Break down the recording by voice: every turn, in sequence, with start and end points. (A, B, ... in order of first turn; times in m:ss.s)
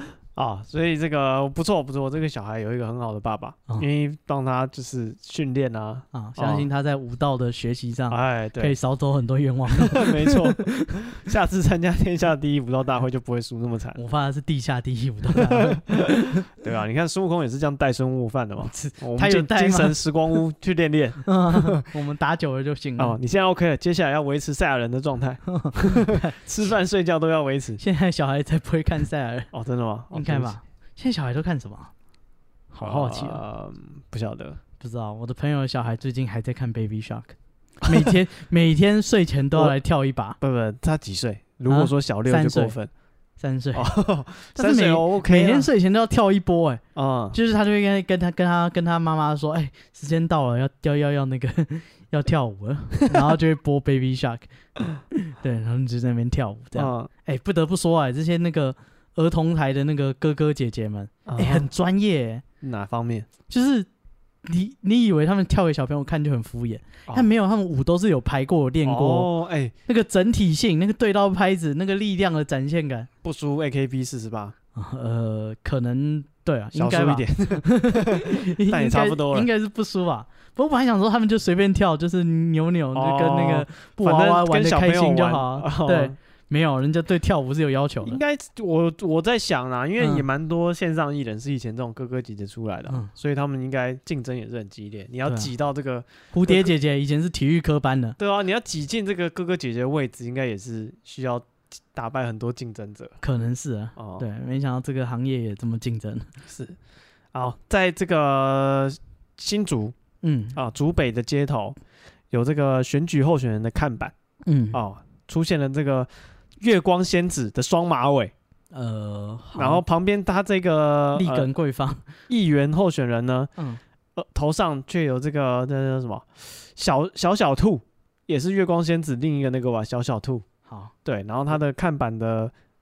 0:00.3-0:06.7 A
0:06.1-0:10.9 B
0:08.1-0:08.7 A
0:09.7-0:14.0 A
0:14.0-0:16.4 B
0:15.3-0:21.8 A
0:18.6-0:20.0 B
0:21.2-0:23.2 B
0:23.0-0:27.8 A
0:25.5-0:26.4 B
0:27.8-0:29.5 B
0:29.5-0:30.5 A
0:30.1-0:31.9 B
0:32.7-0:33.4 B
0:32.8-0:34.6 A
0:34.8-0:40.4 B
0:37.8-0:38.1 A
0:40.4-0:42.9 A
0:41.7-0:42.7 B
0:43.4-0:43.9 B
0:43.7-0:45.7 A
0:44.5-0:46.8 B
0:46.9-0:47.4 A
0:47.3-0:54.4 B
0:55.1-1:02.4 B
0:56.7-0:57.1 A
1:01.2-1:01.7 A
1:02.6-1:03.3 A
1:03.5-1:03.9 B
1:04.4-1:09.3 B
1:08.8-1:09.7 A
1:09.9-1:13.1 B
1:13.2-1:14.5 A
1:14.7-1:28.2 B
1:16.7-1:19.5 A
1:22.9-1:26.2 A
1:28.0-1:36.7 A
1:30.0-1:30.2 B
1:36.3-1:38.2 B
1:38.2-1:43.2 A
1:43.2-1:46.3 B
1:44.0-1:44.2 A
1:46.5-1:46.8 A
1:47.3-1:50.0 A
1:50.2-1:50.6 B
1:50.5-1:51.8 A
1:52.3-1:54.1 A
1:54.4-1:54.8 B
1:54.7-1:58.3 A
1:58.7-1:59.8 B
1:59.5-2:01.5 A
2:01.1-2:02.0 B
2:02.3-2:03.5 A
2:04.1-2:10.4 A
2:10.7-2:10.9 B
2:11.0-2:12.5 A